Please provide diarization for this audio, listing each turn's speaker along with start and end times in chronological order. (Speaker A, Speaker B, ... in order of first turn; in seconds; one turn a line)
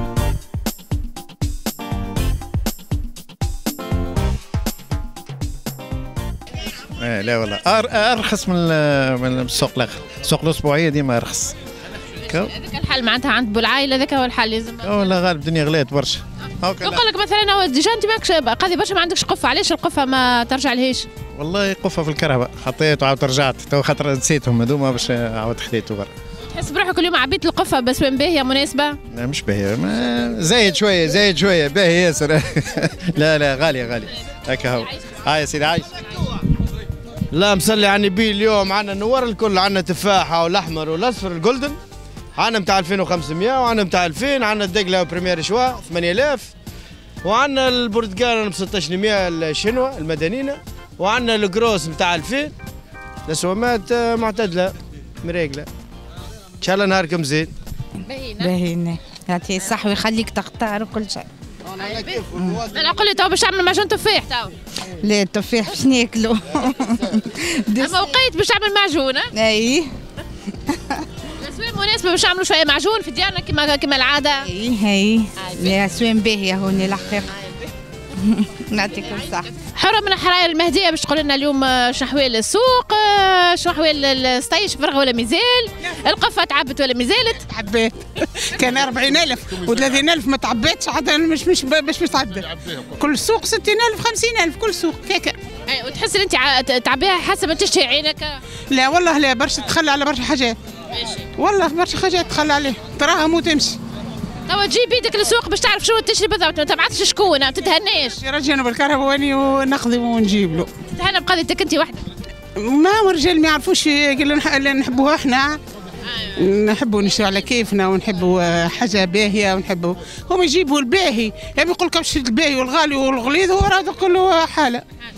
Speaker A: 7.0-11.5
Speaker B: 12.3-15.1
Speaker A: 14.8-17.0
Speaker B: 16.8-21.1
Speaker A: 21.4-26.1
Speaker B: 26.5-29.0
Speaker A: 29.1-35.9
Speaker C: 37.3-41.8
Speaker C: 42.4-46.5
Speaker C: 47.2-52.5
Speaker C: 53.3-55.7
Speaker C: 56.6-57.5
Speaker B: 58.1-58.5
Speaker D: 58.4-61.2
Speaker B: 61.8-64.5
Speaker D: 65.0-66.7
Speaker B: 67.8-69.3
Speaker D: 69.3-69.9
Speaker B: 71.4-74.5
Speaker D: 74.5-77.3
Speaker D: 78.6-79.4
Speaker B: 79.6-87.5
Speaker E: 87.5-95.4
Speaker B: 95.7-98.4
Speaker E: 98.7-100.6
Speaker E: 101.4-103.8
Speaker B: 104.5-108.2
Speaker E: 108.2-110.7
Speaker B: 110.9-112.0
Speaker E: 112.6-115.6
Speaker E: 116.4-124.8